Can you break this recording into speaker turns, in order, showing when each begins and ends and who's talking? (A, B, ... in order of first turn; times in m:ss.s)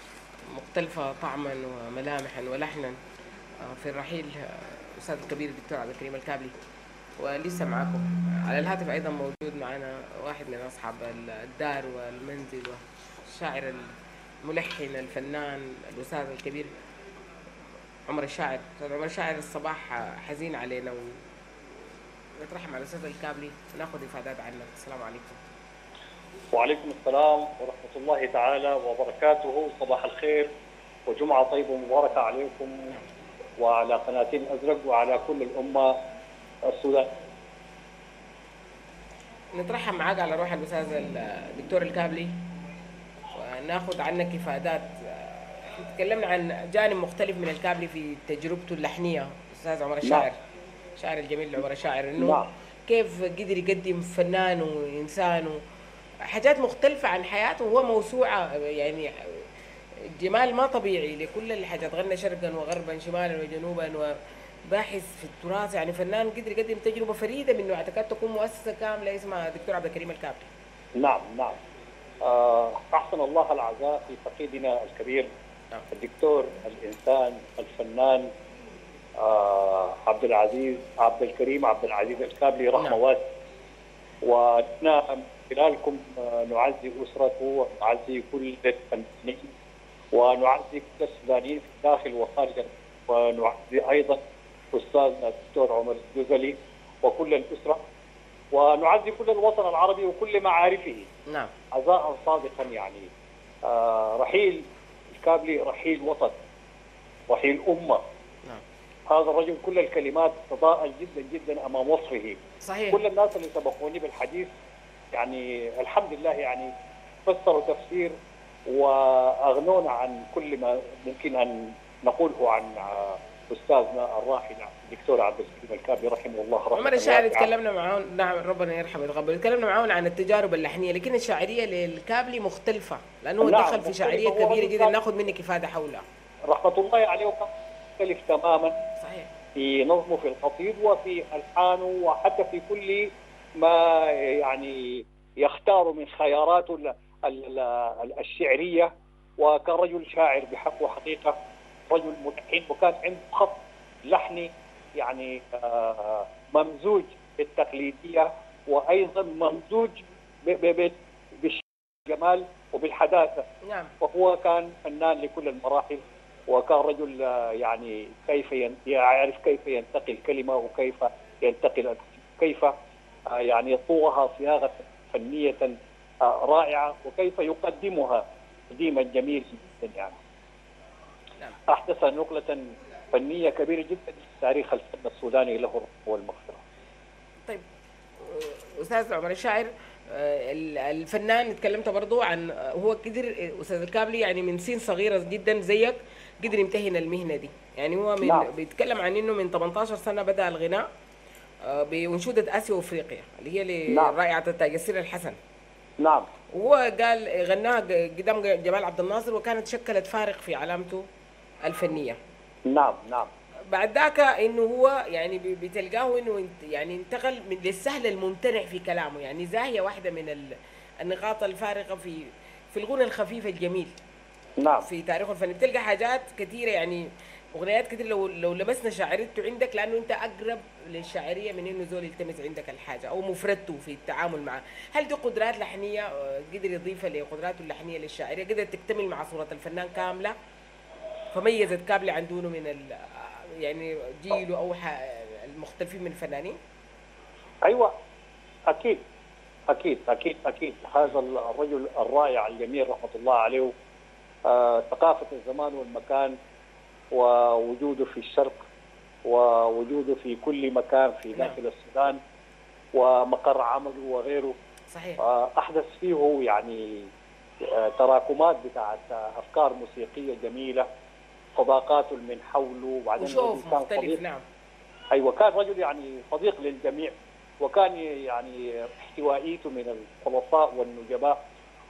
0:00.5-0:03.0 A
0:03.6-0:06.5 A
0:07.2-0:13.9 A
0:14.4-0:16.7 A
0:18.1-0:21.2 A
0:22.4-0:25.4 A
0:26.5-0:30.5 B
0:31.1-0:32.7 B
0:33.6-0:36.0 B
0:36.7-0:37.1 B
0:39.6-0:42.3 A
0:43.3-0:50.4 A
0:51.0-0:55.6 A
0:52.2-0:52.5 B
0:56.3-0:59.4 A
1:00.2-1:04.2 A
1:04.7-1:10.5 A
1:11.0-1:11.6 B
1:12.2-1:15.3 B
1:15.9-1:18.3 B
1:19.2-1:23.2 B
1:22.8-1:23.0 A
1:24.2-1:29.5 B
1:30.1-1:34.2 B
1:34.7-1:37.8 B
1:38.5-1:41.1 B
1:41.7-1:43.1 B
1:43.6-1:44.6 B
1:45.2-1:46.4 B
1:47.3-1:48.0 B
1:49.1-1:52.4 B
1:52.6-1:53.0 A
1:52.9-1:54.5 B
1:55.1-1:56.7 B
1:57.3-1:58.1 B
1:58.7-2:07.5 B
2:06.8-2:16.0 A
2:13.4-2:15.0 B
2:16.5-2:18.8 B
2:19.0-2:19.3 A
2:19.6-2:23.1 B
2:23.6-2:28.9 B
2:29.4-2:31.4 B
2:31.9-2:43.4 B
2:43.6-2:43.9 A
2:44.0-2:52.7 B
2:53.3-3:00.2 B
3:01.7-3:06.6 B
3:08.2-3:20.8 A
3:18.2-3:18.5 B
3:21.7-3:25.4 A
3:23.9-3:24.2 B
3:26.0-3:26.3 B
3:26.5-3:31.1 A
3:31.7-3:32.2 A
3:32.7-3:33.3 B
3:33.7-3:44.0 A
3:44.6-3:44.9 B
3:44.8-4:00.3 A
4:01.3-4:06.6 A
4:07.7-4:07.9 B
4:08.7-4:09.0 B
4:09.7-4:13.7 B
4:14.5-4:16.3 B
4:17.1-4:18.6 B
4:19.3-4:22.2 B
4:21.3-4:21.6 A
4:23.0-4:24.6 B
4:24.9-4:25.2 A
4:25.2-4:27.1 B
4:27.6-4:30.9 B
4:31.6-4:34.2 B
4:33.2-4:34.4 A
4:35.1-4:41.4 B